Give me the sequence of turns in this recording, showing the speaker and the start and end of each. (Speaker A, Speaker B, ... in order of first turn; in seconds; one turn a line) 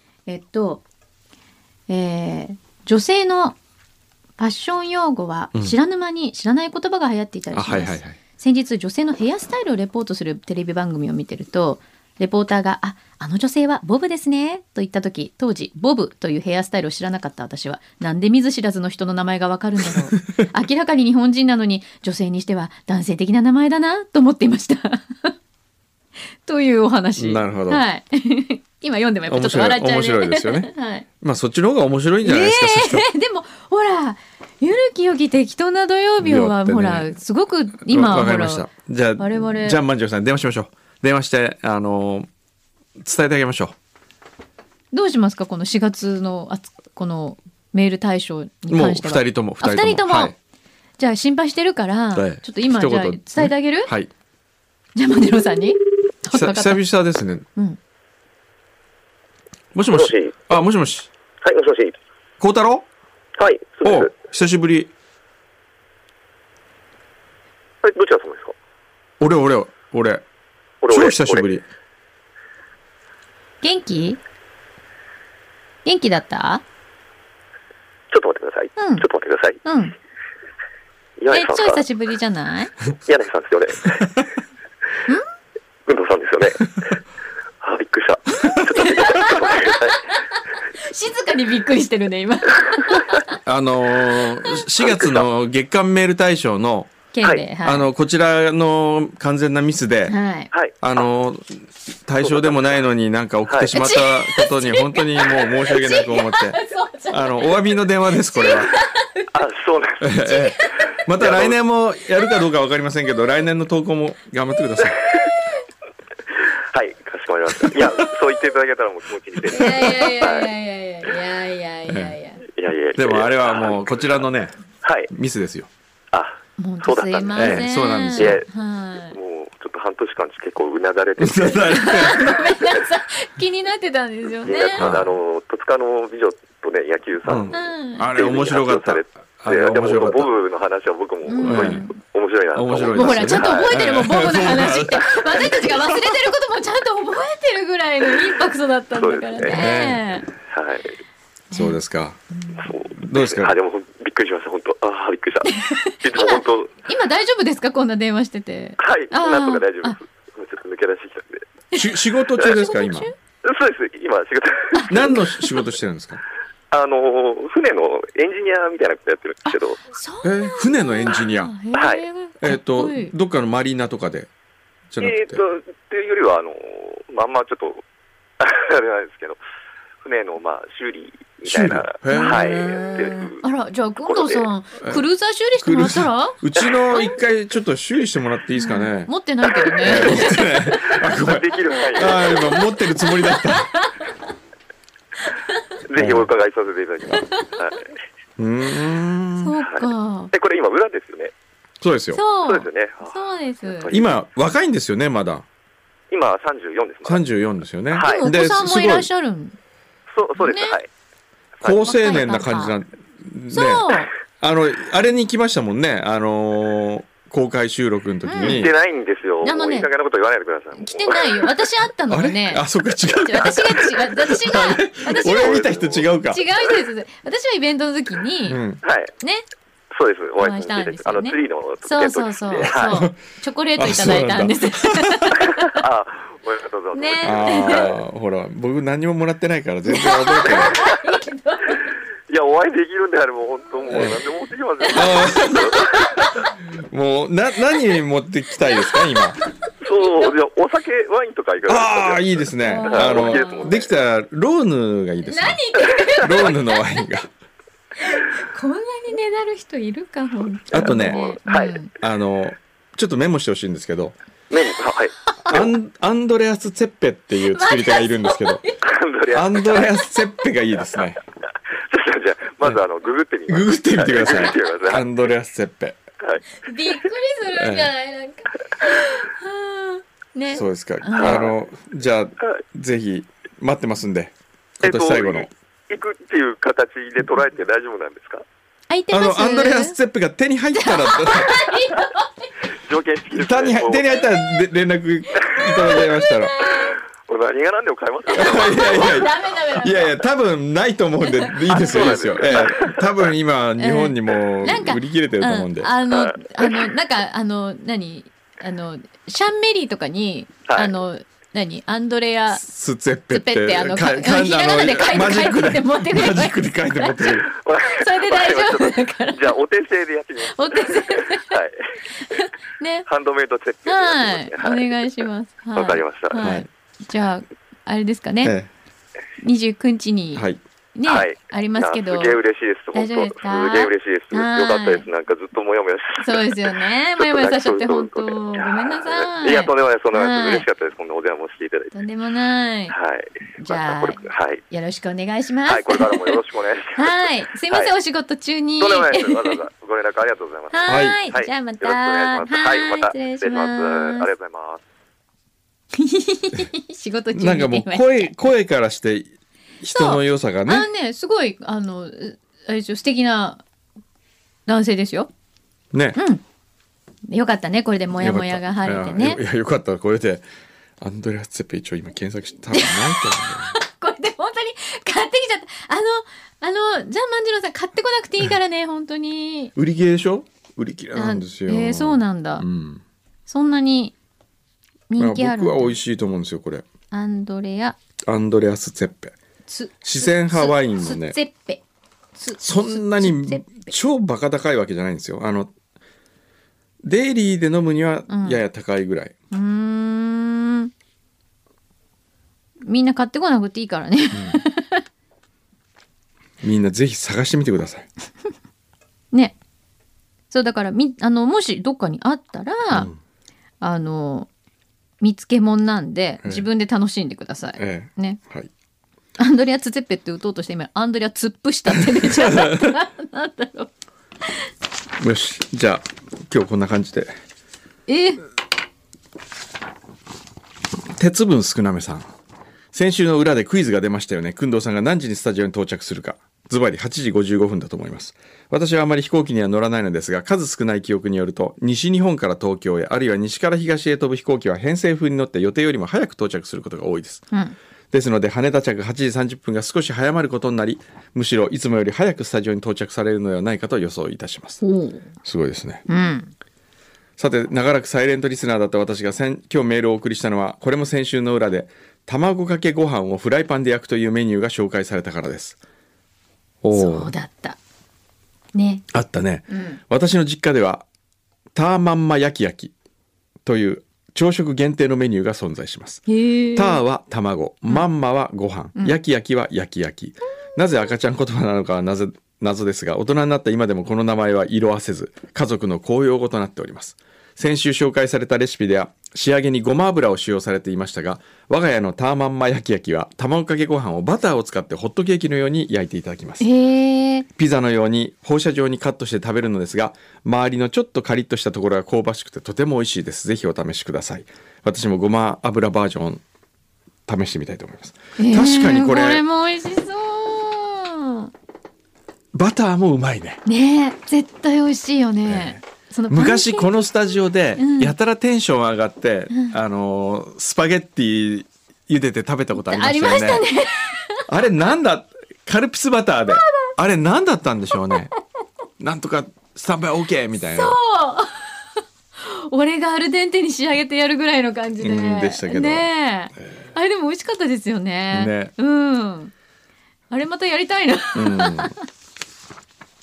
Speaker A: 0.3-0.8
Speaker A: 1.9-3.6
Speaker A: 4.4-25.3
Speaker B: 7.5-8.2
Speaker A: 26.4-31.1
Speaker B: 27.2-27.9
Speaker B: 29.3-33.1
Speaker A: 32.2-38.7
Speaker B: 36.2-37.1
Speaker B: 37.8-42.3
Speaker A: 39.2-39.8
Speaker B: 43.0-43.8
Speaker A: 44.9-50.4
Speaker B: 48.7-50.4
Speaker A: 51.0-53.9
Speaker B: 52.1-54.1
Speaker A: 55.0-56.8
Speaker B: 56.3-57.5
Speaker B: 59.7-61.1
Speaker C: 59.9-60.4
Speaker C: 61.4-62.0
Speaker B: 62.4-62.9
Speaker C: 63.4-64.1
Speaker B: 63.8-64.9
Speaker C: 67.8-68.5
Speaker B: 69.2-70.2
Speaker C: 70.8-71.5
Speaker B: 70.9-71.7
Speaker A: 73.6-74.2
Speaker A: 75.8-76.6
Speaker C: 78.1-79.6
Speaker A: 78.8-79.1
Speaker A: 79.6-80.0
Speaker C: 81.2-81.8
Speaker A: 81.3-82.8
Speaker C: 83.0-84.2
Speaker C: 85.9-87.0
Speaker C: 87.6-90.0
Speaker A: 88.8-93.3
Speaker B: 93.4-97.0
Speaker C: 94.8-95.3
Speaker A: 97.1-97.9
Speaker B: 97.6-100.2
Speaker A: 100.1-100.5
Speaker C: 100.5-101.0
Speaker B: 100.8-108.8
Speaker C: 102.2-102.7
Speaker A: 103.7-109.3
Speaker C: 109.3-110.1
Speaker B: 110.0-115.0
Speaker A: 110.2-111.0
Speaker C: 111.2-111.6
Speaker C: 116.5-120.5
Speaker A: 119.5-122.5
Speaker B: 121.9-122.2
Speaker C: 122.5-124.2
Speaker B: 123.0-124.6
Speaker C: 124.8-125.1
Speaker B: 125.1-125.7
Speaker C: 126.1-128.4
Speaker A: 126.6-129.2
Speaker B: 127.3-128.4
Speaker C: 129.1-132.3
Speaker B: 131.2-132.3
Speaker A: 131.6-134.9
Speaker C: 134.5-137.6
Speaker B: 134.8-135.1
Speaker B: 137.2-140.3
Speaker A: 137.5-138.1
Speaker C: 138.1-143.8
Speaker A: 141.3-142.0
Speaker B: 141.4-141.9
Speaker B: 142.5-146.2
Speaker A: 142.9-150.3
Speaker C: 148.9-149.6
Speaker B: 149.5-150.0
Speaker C: 150.5-150.9
Speaker A: 151.5-151.8
Speaker B: 151.5-152.2
Speaker A: 152.4-152.7
Speaker C: 152.6-156.7
Speaker B: 152.9-153.6
Speaker A: 155.5-160.0
Speaker C: 158.8-161.5
Speaker A: 161.7-163.2
Speaker B: 161.7-163.1
Speaker C: 163.4-165.1
Speaker A: 164.8-165.6
Speaker B: 164.9-166.2
Speaker C: 166.7-169.8
Speaker A: 169.5-173.1
Speaker B: 170.2-171.6
Speaker C: 171.7-172.1
Speaker B: 172.4-174.3
Speaker B: 174.9-175.4
Speaker C: 175.0-177.8
Speaker C: 178.4-179.4
Speaker C: 180.0-183.4
Speaker B: 181.5-183.3
Speaker A: 182.1-186.4
Speaker C: 184.0-184.5
Speaker B: 185.6-189.1
Speaker A: 188.6-190.8
Speaker C: 189.5-192.7
Speaker B: 189.8-193.8
Speaker A: 192.0-194.1
Speaker C: 195.9-197.9
Speaker B: 195.9-196.3
Speaker B: 198.4-199.6
Speaker A: 199.4-200.3
Speaker C: 199.7-201.3
Speaker B: 201.8-202.2
Speaker A: 202.2-203.9
Speaker C: 202.4-204.2
Speaker B: 203.9-205.5
Speaker C: 206.1-207.2
Speaker B: 207.1-209.1
Speaker C: 207.9-208.3
Speaker A: 208.0-209.6
Speaker C: 210.1-210.9
Speaker A: 210.4-210.8
Speaker B: 211.6-218.7
Speaker A: 211.7-212.8
Speaker A: 213.5-214.1
Speaker A: 218.3-218.7
Speaker C: 218.4-221.5
Speaker A: 219.4-219.9
Speaker A: 220.8-225.7
Speaker B: 222.1-226.4
Speaker C: 225.2-226.1
Speaker A: 226.2-228.6
Speaker B: 228.5-228.8
Speaker C: 228.8-229.1
Speaker C: 229.9-233.1
Speaker A: 230.4-235.8
Speaker B: 232.8-233.1
Speaker B: 233.8-235.4
Speaker C: 235.3-237.9
Speaker A: 236.9-237.9
Speaker B: 237.2-240.8
Speaker A: 239.9-241.9
Speaker C: 240.4-240.9
Speaker C: 241.7-246.4
Speaker B: 243.9-244.2
Speaker A: 244.8-246.5
Speaker B: 244.9-245.7
Speaker B: 246.8-249.4
Speaker A: 248.7-249.2
Speaker C: 249.8-253.9
Speaker A: 249.9-250.3
Speaker B: 251.7-255.6
Speaker A: 252.6-253.8
Speaker A: 255.2-257.1
Speaker B: 256.1-257.3
Speaker A: 258.0-261.9
Speaker B: 260.7-261.4
Speaker C: 260.7-261.8
Speaker B: 262.0-264.1
Speaker C: 264.5-265.7
Speaker A: 265.4-265.7
Speaker B: 265.4-268.6
Speaker A: 267.4-268.8
Speaker C: 268.9-269.9
Speaker B: 269.3-271.2
Speaker A: 269.7-270.2
Speaker C: 271.9-275.1
Speaker B: 273.5-276.0
Speaker C: 276.2-276.5
Speaker A: 276.6-281.5
Speaker B: 277.5-277.9
Speaker B: 280.5-285.5
Speaker C: 281.2-281.5
Speaker C: 284.8-288.4
Speaker A: 288.9-290.0
Speaker B: 289.1-291.6
Speaker A: 290.8-292.7
Speaker C: 292.7-294.3
Speaker B: 293.3-296.6
Speaker A: 295.5-297.0
Speaker C: 295.7-296.0
Speaker C: 296.7-299.2
Speaker B: 298.3-305.9
Speaker A: 298.4-300.2
Speaker A: 301.3-302.7
Speaker C: 301.7-303.3
Speaker A: 303.8-312.6
Speaker C: 306.1-306.8
Speaker C: 310.7-310.9
Speaker B: 312.5-317.5
Speaker A: 313.3-317.3
Speaker C: 317.3-322.5
Speaker A: 317.8-319.6
Speaker A: 320.4-321.6
Speaker A: 322.1-323.1
Speaker C: 323.1-325.1
Speaker A: 323.9-328.6
Speaker C: 325.8-326.4
Speaker B: 326.4-326.7
Speaker B: 328.4-328.7
Speaker A: 329.4-335.1
Speaker B: 330.3-330.6
Speaker C: 331.1-336.7
Speaker A: 336.2-340.7
Speaker C: 337.2-341.9
Speaker A: 341.9-343.0
Speaker C: 342.9-344.6
Speaker A: 343.6-349.6
Speaker C: 345.7-347.2
Speaker C: 347.7-347.9
Speaker C: 348.8-354.8
Speaker A: 350.7-354.3
Speaker B: 350.9-351.2
Speaker A: 355.9-358.3
Speaker B: 357.3-360.9
Speaker A: 359.9-363.6
Speaker A: 364.7-365.3
Speaker B: 365.9-366.2
Speaker A: 366.2-366.4
Speaker A: 367.3-369.4
Speaker B: 368.2-370.4
Speaker B: 371.0-373.8
Speaker A: 372.8-379.7
Speaker B: 379.8-383.0
Speaker A: 381.1-382.6
Speaker A: 383.5-384.1
Speaker A: 385.1-386.0
Speaker B: 385.2-386.9
Speaker A: 387.1-388.0
Speaker B: 388.3-389.3
Speaker A: 389.7-391.8
Speaker B: 390.0-391.4
Speaker A: 392.4-393.9
Speaker B: 392.6-395.7
Speaker B: 397.0-399.3
Speaker A: 398.3-398.6
Speaker A: 399.5-400.9
Speaker A: 402.9-405.0
Speaker B: 404.3-404.6
Speaker B: 406.6-408.1
Speaker A: 410.5-413.1
Speaker B: 412.9-413.2
Speaker A: 413.8-414.5
Speaker A: 415.2-418.4
Speaker B: 416.4-416.7
Speaker B: 417.8-418.7
Speaker A: 419.4-423.9
Speaker B: 422.2-422.9
Speaker B: 425.2-427.3
Speaker A: 428.1-428.5
Speaker B: 431.2-432.3
Speaker B: 432.9-447.5
Speaker B: 448.1-454.8
Speaker A: 454.8-455.3
Speaker B: 455.4-456.1
Speaker A: 456.1-456.5
Speaker B: 457.4-465.8
Speaker B: 466.8-467.3
Speaker A: 466.9-467.8
Speaker A: 468.7-469.1
Speaker B: 469.1-471.1
Speaker A: 469.7-470.0
Speaker B: 471.8-472.9
Speaker B: 473.6-496.7
Speaker A: 476.3-477.0
Speaker A: 496.6-497.5
Speaker B: 497.6-506.4
Speaker B: 507.3-509.4
Speaker A: 508.4-511.5
Speaker B: 512.5-513.6
Speaker A: 513.6-517.1
Speaker B: 515.5-523.7
Speaker A: 517.8-518.1
Speaker A: 522.7-524.5
Speaker B: 524.5-528.3
Speaker A: 526.5-526.9
Speaker B: 529.0-531.0
Speaker A: 530.8-539.5
Speaker B: 535.0-536.9
Speaker B: 538.3-538.7
Speaker A: 540.3-542.0
Speaker B: 541.4-541.9